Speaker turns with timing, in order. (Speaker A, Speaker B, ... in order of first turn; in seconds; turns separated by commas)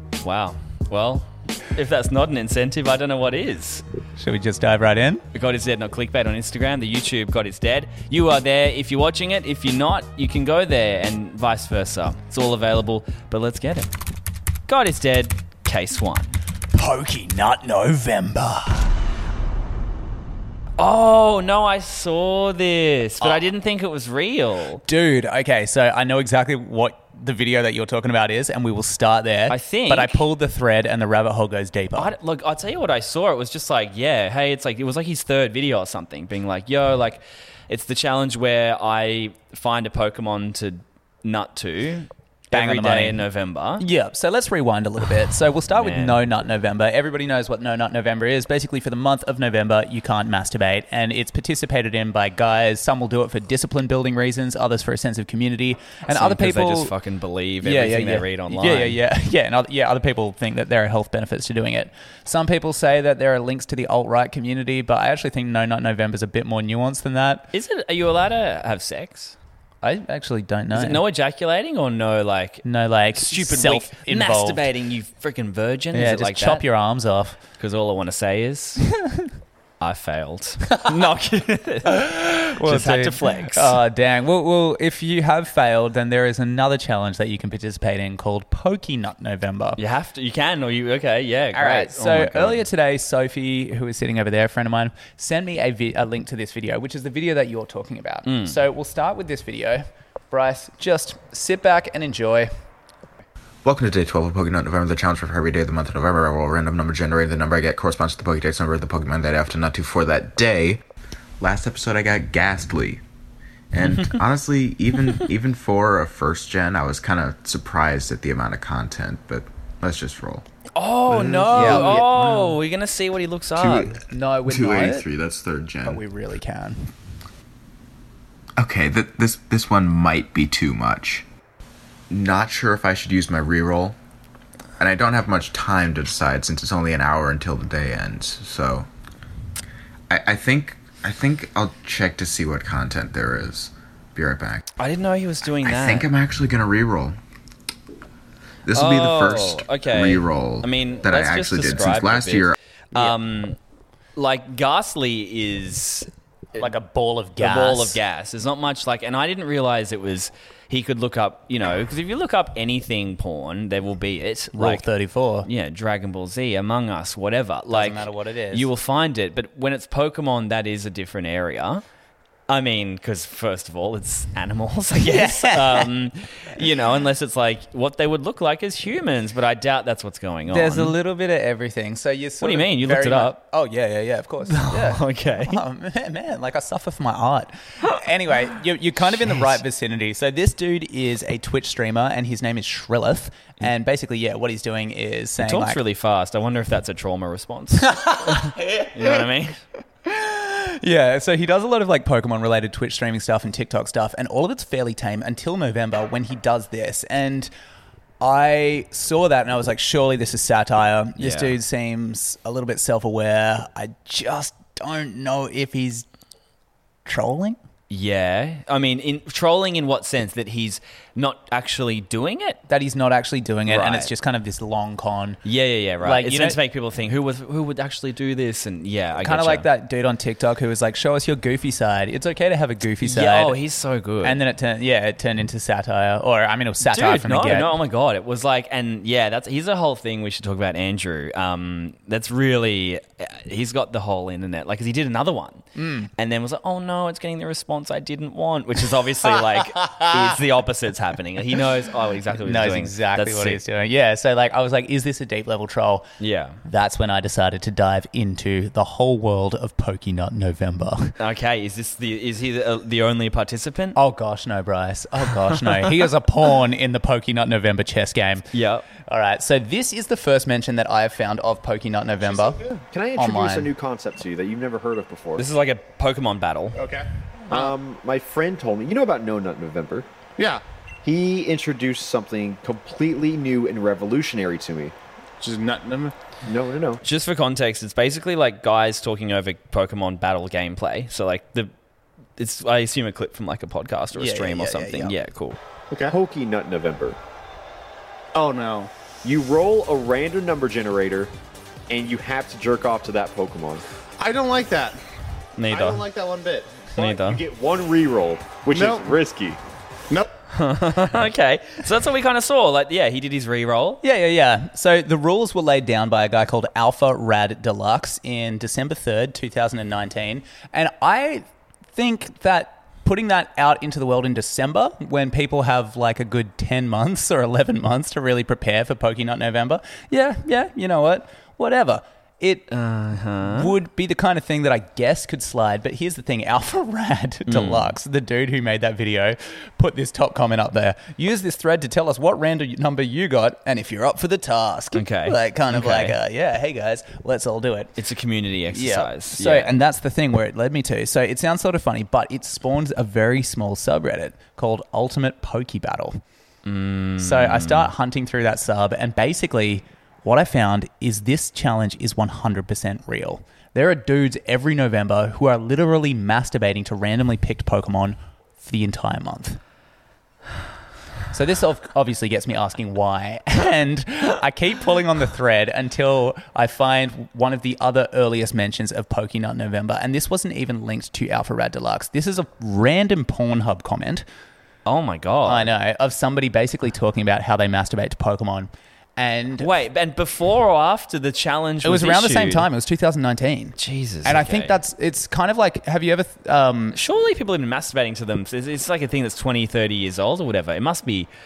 Speaker A: 0.2-3.8, Speaker B: 4.2-5.2, Speaker A: 5.3-13.9, Speaker A: 14.7-16.4, Speaker B: 16.7-18.9, Speaker A: 20.8-24.8, Speaker B: 24.8-32.1, Speaker A: 29.5-30.2, Speaker A: 31.9-43.8, Speaker B: 42.5-43.2, Speaker B: 43.8-56.9, Speaker A: 45.7-46.2, Speaker A: 56.1-59.0, Speaker B: 57.6-67.5, Speaker A: 67.5-69.4, Speaker B: 69.8-71.0, Speaker A: 70.7-76.6, Speaker B: 72.6-74.7, Speaker B: 75.9-77.4, Speaker A: 77.6-78.9, Speaker B: 79.0-79.3, Speaker A: 79.8-83.8, Speaker B: 81.9-89.8, Speaker A: 89.8-92.6, Speaker B: 91.5-102.5, Speaker A: 98.2-98.5, Speaker C: 103.6-110.8, Speaker C: 111.4-113.0, Speaker C: 113.7-120.4, Speaker A: 113.8-114.2, Speaker A: 120.7-123.9, Speaker C: 121.1-122.4, Speaker B: 121.5-122.5, Speaker C: 123.5-126.0, Speaker B: 123.8-125.1, Speaker B: 125.8-126.9, Speaker C: 128.6-131.2, Speaker C: 132.1-133.9, Speaker C: 134.8-138.9, Speaker C: 140.1-144.6, Speaker A: 144.8-146.1, Speaker C: 145.6-147.2, Speaker C: 148.7-152.5, Speaker A: 148.7-153.6, Speaker A: 154.2-156.7, Speaker B: 156.6-158.0, Speaker A: 157.4-164.8, Speaker B: 164.5-165.5, Speaker A: 165.4-171.8, Speaker B: 167.7-168.7, Speaker A: 172.5-180.9, Speaker B: 174.9-175.9, Speaker B: 180.5-195.8, Speaker A: 182.4-183.4, Speaker A: 184.4-185.6, Speaker A: 195.4-199.6, Speaker B: 197.8-199.2, Speaker B: 200.0-207.5, Speaker B: 208.2-216.1, Speaker A: 211.2-211.5, Speaker B: 217.1-217.6, Speaker A: 217.9-222.6, Speaker B: 222.7-225.4, Speaker A: 223.7-224.1, Speaker A: 225.4-229.7, Speaker B: 226.0-226.6, Speaker B: 229.2-233.6, Speaker A: 233.0-234.4, Speaker B: 234.2-237.8, Speaker A: 236.8-253.6, Speaker B: 245.7-246.1, Speaker B: 252.3-256.1, Speaker A: 256.2-256.6, Speaker B: 256.6-261.1, Speaker A: 261.2-264.0, Speaker B: 263.9-272.6, Speaker A: 268.5-268.9, Speaker D: 272.8-275.5, Speaker B: 273.1-273.7, Speaker A: 275.4-276.8, Speaker E: 276.8-277.7, Speaker D: 277.5-280.1, Speaker D: 281.0-284.9, Speaker E: 285.4-286.1, Speaker D: 286.5-287.0, Speaker A: 287.0-291.7, Speaker A: 292.4-295.6, Speaker B: 294.1-295.1, Speaker E: 295.9-296.1, Speaker D: 296.1-297.2, Speaker E: 298.3-298.9, Speaker D: 299.2-301.3, Speaker D: 301.9-303.8, Speaker E: 304.2-305.0, Speaker A: 305.6-306.0, Speaker E: 305.6-306.9, Speaker D: 306.9-309.6, Speaker A: 307.0-307.4, Speaker E: 308.7-309.1, Speaker A: 310.5-314.0, Speaker B: 314.0-332.7, Speaker A: 332.7-333.7, Speaker B: 333.4-347.9, Speaker A: 337.5-337.9, Speaker A: 344.9-346.1, Speaker A: 348.0-349.7, Speaker B: 348.7-356.2, Speaker A: 356.6-357.9, Speaker B: 357.2-369.6, Speaker B: 371.3-384.2, Speaker A: 384.9-385.7, Speaker B: 385.4-389.7, Speaker A: 389.6-392.7, Speaker B: 391.8-397.0, Speaker A: 393.8-394.8, Speaker A: 396.9-401.3